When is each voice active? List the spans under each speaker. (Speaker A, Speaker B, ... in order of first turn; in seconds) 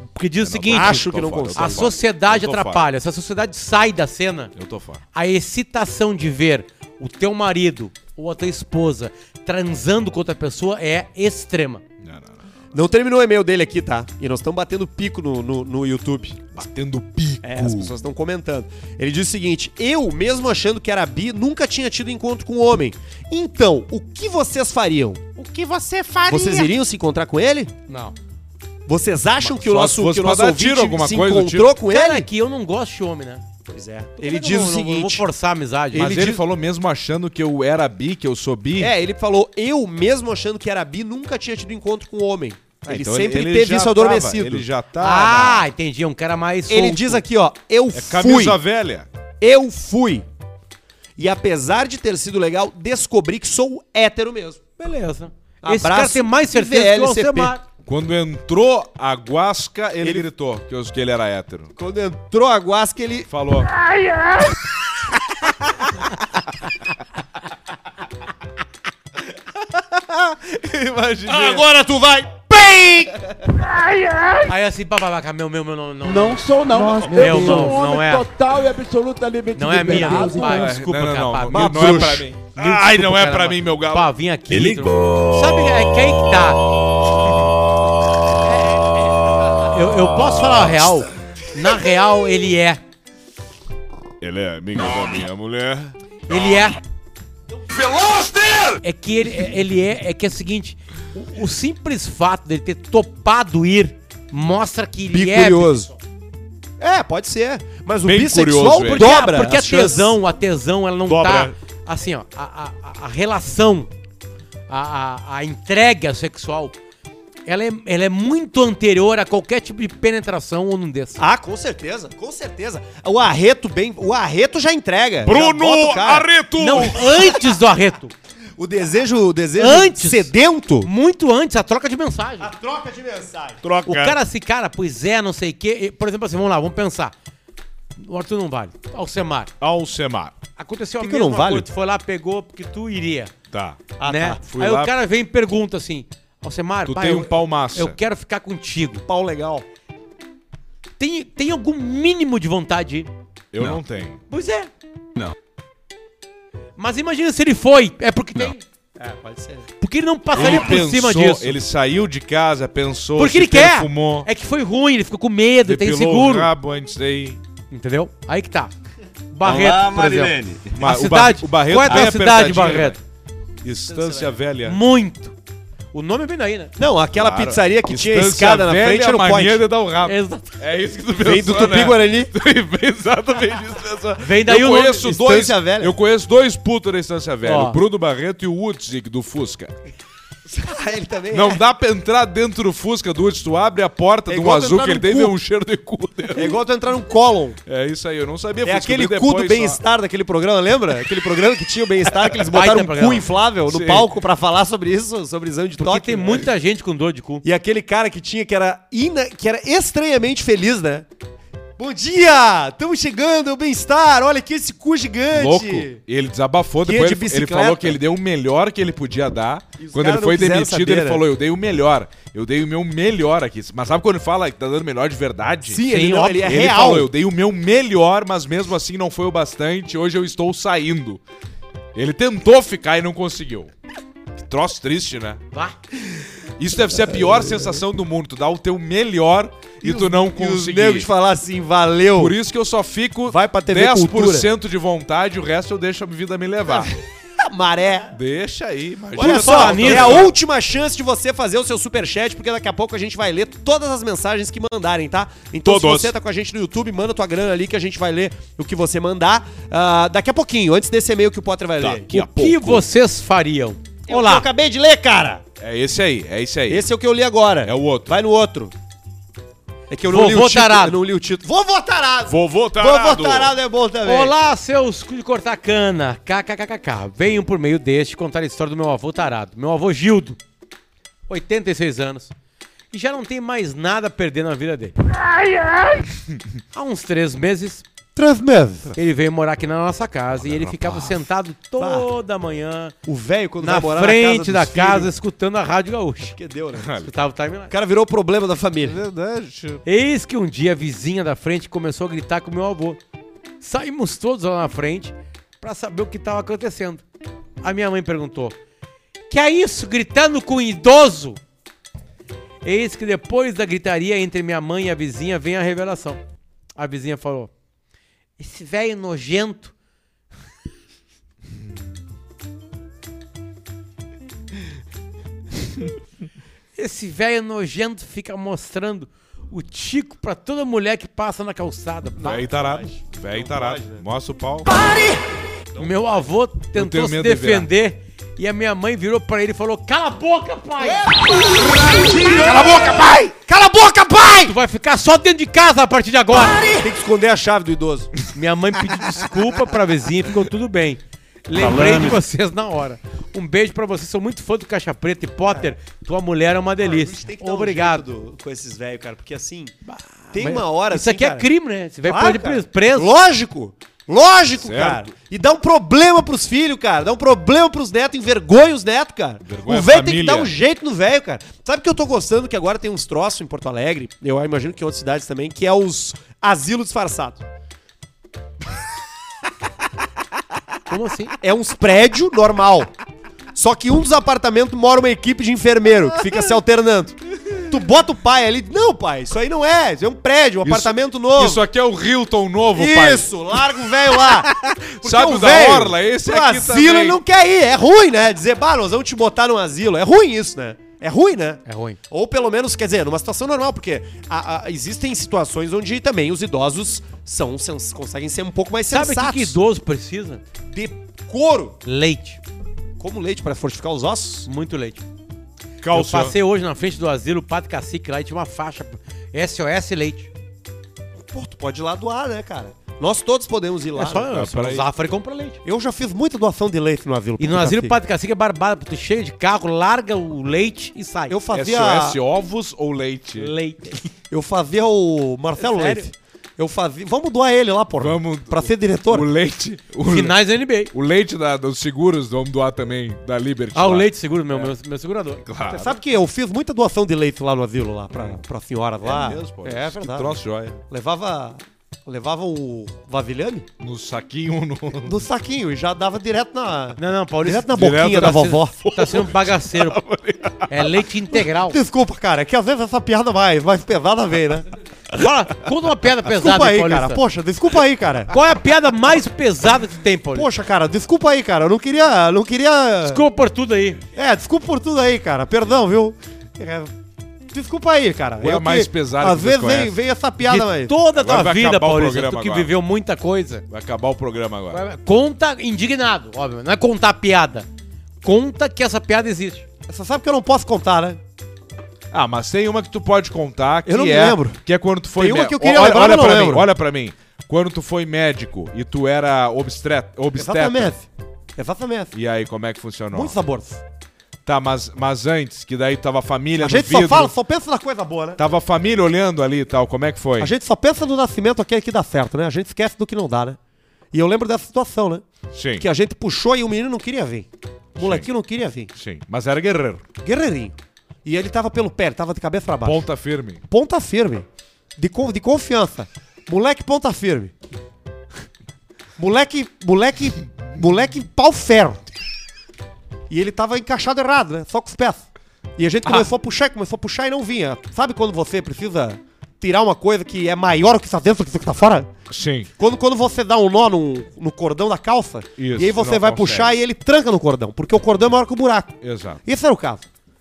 Speaker A: 0.1-4.5, 5.1-11.8, 27.9-28.1, 31.9-33.4, 34.2-36.1, 45.0-47.2, 54.8-57.6, 74.4-78.3, 79.5-86.6, 89.5-92.8, 96.3-96.8, 98.8-105.9, 108.9-113.9, 114.7-116.7, 117.5-121.2, 126.6-128.1, 129.6-130.3, 130.8-132.5, 133.8-137.1, 138.0-139.5, 140.6-143.3, 144.0-149.0, 151.0-153.1, 154.3-154.7, 156.8-158.6, 159.8-161.6, 163.2-166.5, 167.7-168.7, 169.3-173.0, 174.6-175.3, 175.9-176.7, 180.0-180.5, 184.2-185.2, 187.4-187.8, 202.5-203.2, 205.8-207.4, 225.9-226.4, 249.2-250.3, 262.1-264.5, 270.1-271.0, 274.0-280.4, 281.3-282.3, 282.9-284.9, 286.7-287.8, 288.9-292.9, 293.6-296.4, 297.0-297.7, 299.8-303.0, 303.6-307.0, 307.6-308.5, 309.3-311.4, 312.6-316.2, 316.8-317.5, 318.4-319.7, 326.8-332.4, 335.8-341.1, 344.4-346.7, 348.3-358.0, 359.9-363.1, 380.9-381.3, 401.6-402.0, 408.9-410.4, 411.8-412.4, 414.4-415.0, 415.9-420.3, 423.9-425.6, 427.4-431.3, 433.4-434.1, 435.6-436.1, 440.0-440.9, 443.7-445.4, 457.0-460.0, 460.7-461.8, 465.1-467.2, 468.3-470.5, 473.1-474.0, 480.4-483.6, 484.7-487.7, 488.2-489.6
Speaker B: 0.4-2.9, 4.5-5.0, 12.0-12.4, 16.5-17.9, 25.4-26.7, 29.4-31.7, 35.9-38.9, 42.9-45.7, 47.9-49.1, 57.9-61.7, 63.3-63.7, 70.0-71.7, 80.2-84.9, 94.2-96.0, 97.9-98.6, 108.0-109.1, 111.0-111.5, 125.2-127.3, 133.6-134.2, 139.6-140.3, 143.5-144.9, 146.8-148.0, 153.5-154.2, 160.3-164.3, 165.6-167.4, 169.4-173.0, 173.6-174.8, 177.1-189.7, 191.3-196.6, 197.7-199.8, 203.7-204.1, 215.3-225.8, 226.4-231.2, 231.9-233.7, 234.4-235.4, 236.6-241.1, 242.2-246.9, 248.1-250.3, 255.6-256.1, 261.8-262.9, 265.6-266.9, 267.6-268.1, 272.3-273.5, 290.4-291.2, 296.7-297.1, 298.8-299.8, 332.2-334.7, 336.7-337.7, 341.7-343.2, 351.8-352.1, 364.5-365.1, 369.4-370.5, 390.6-393.3, 394.3-397.2, 415.8-416.3, 424.3-424.9, 431.5-433.5, 438.0-440.4, 440.9-444.7, 445.4-445.9, 449.0-450.8, 453.8-455.2, 457.7-461.0, 478.4-480.0, 481.1-482.7, 483.7-484.8, 492.1-500.9, 502.1-503.3, 504.4-507.3, 508.4-510.5, 515.5-515.9, 518.0-518.3, 518.9-520.0, 522.8-523.6, 542.3-542.7, 545.6-546.8, 549.0-549.4
Speaker C: 0.7-1.9, 12.7-16.5, 17.4-25.2, 26.3-27.7, 28.9-32.3, 33.7-35.2, 35.9-36.4, 38.8-44.6, 46.7-48.6, 49.4-50.2, 51.2-54.6, 55.6-57.5, 60.0-60.3, 61.8-63.3, 71.3-73.2, 81.5-82.3, 105.1-105.9, 106.8-110.1, 121.2-126.9, 128.6-130.9, 132.4-133.6, 141.0-141.7, 144.0-144.4, 149.1-149.6, 159.0-159.7, 176.8-179.6, 181.2-182.3, 184.9-185.9, 190.5-191.6, 194.3-195.3, 196.3-197.6, 198.6-206.5, 207.4-211.1, 211.8-216.0, 216.8-218.0, 219.8-221.2, 225.7-227.1, 239.8-242.3, 243.3-244.5, 246.7-248.1, 249.2-262.1, 264.1-265.4, 266.7-268.7, 269.9-274.3, 288.1-288.9, 291.8-292.1, 293.1-295.1, 296.4-297.0, 297.7-299.0, 332.2-334.0, 334.7-335.2, 341.1-344.5, 346.5-348.1, 356.8-359.7, 360.3-361.5, 362.0-377.4, 381.4-382.9, 383.5-391.6, 392.7-409.6, 410.7-411.8, 413.0-414.5, 421.3-424.3, 425.6-428.0, 431.3-432.2, 434.3-439.3, 445.7-453.7, 455.0-458.8, 461.6-464.7, 466.2-468.3, 470.3-473.2, 474.1-476.9, 477.5-480.9, 489.9-491.2, 493.9-494.6, 495.2-496.7, 500.4-501.0, 501.6-502.1, 503.1-503.8, 506.6-508.4, 510.4-513.6, 514.1-515.2, 515.8-518.9, 520.2-523.0, 523.7-524.5, 525.0-527.5, 529.2-532.0, 533.3-535.2, 535.8-542.1, 542.8-550.0
Speaker D: 76.0-80.8